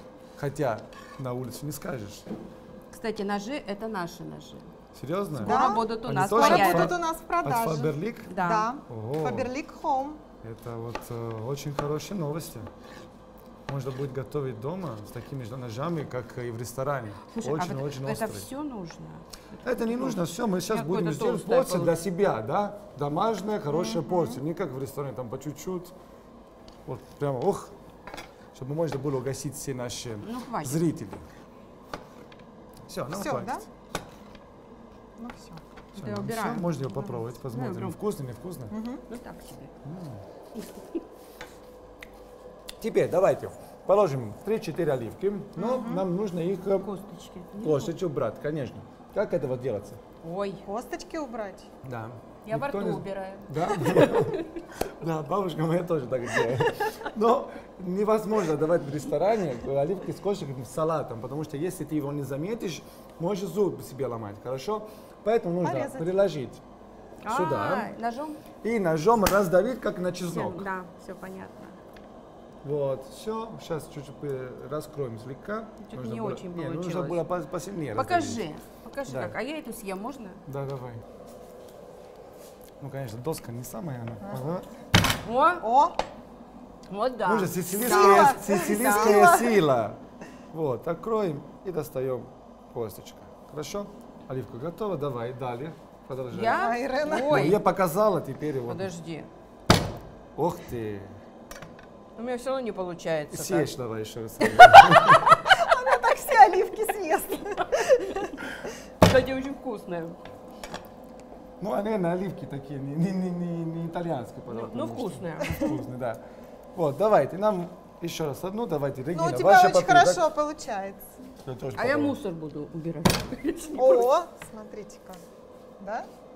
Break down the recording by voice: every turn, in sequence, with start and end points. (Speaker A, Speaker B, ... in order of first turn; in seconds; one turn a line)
Speaker A: 0.4-2.3
Speaker B: 2.9-4.7
Speaker A: 4.9-8.3
Speaker B: 5.4-7.0
Speaker C: 5.4-10.2
Speaker B: 8.3-8.7
Speaker A: 8.9-9.5
Speaker A: 10.4-12.7
Speaker A: 13.7-18.5
Speaker B: 17.3-22.0
Speaker A: 19.6-25.9
Speaker C: 23.8-24.4
Speaker A: 26.9-27.7
Speaker A: 28.5-31.3
Speaker B: 30.2-30.9
Speaker A: 32.9-33.7
Speaker C: 33.1-33.6
Speaker C: 35.2-35.6
Speaker B: 36.0-36.7
Speaker A: 36.0-38.8
Speaker C: 37.0-37.2
Speaker B: 37.5-38.0
Speaker C: 38.7-39.0
Speaker B: 39.1-39.7
Speaker A: 39.8-40.2
Speaker B: 40.5-40.8
Speaker A: 42.8-46.9
Speaker C: 45.6-46.0
Speaker B: 46.8-47.9
Speaker A: 47.6-50.0
Speaker B: 50.2-50.7
Speaker C: 50.7-51.7
Speaker A: 51.8-66.6
Speaker B: 52.5-54.6
Speaker C: 65.6-66.2
Speaker B: 67.2-68.4
Speaker A: 67.3-67.9
Speaker A: 68.6-70.7
Speaker B: 70.3-71.8
Speaker A: 72.6-78.5
Speaker B: 75.8-77.2
Speaker B: 78.0-80.4
Speaker A: 79.1-79.3
Speaker A: 80.5-81.0
Speaker A: 82.8-84.7
Speaker B: 85.2-85.7
Speaker C: 85.6-86.0
Speaker B: 86.9-89.3
Speaker A: 87.2-90.0
Speaker C: 87.8-89.6
Speaker A: 90.5-98.9
Speaker B: 96.3-97.6
Speaker C: 96.4-97.6
Speaker B: 98.7-99.3
Speaker A: 100.4-101.2
Speaker B: 102.2-103.7
Speaker A: 103.3-105.4
Speaker B: 104.4-105.4
Speaker C: 105.4-108.3
Speaker B: 107.6-108.3
Speaker B: 109.0-110.2
Speaker A: 111.6-116.2
Speaker B: 114.5-115.8
Speaker A: 116.7-120.3
Speaker C: 119.1-121.1
Speaker A: 121.4-122.2
Speaker B: 121.8-124.1
Speaker C: 123.7-125.2
Speaker C: 125.8-126.1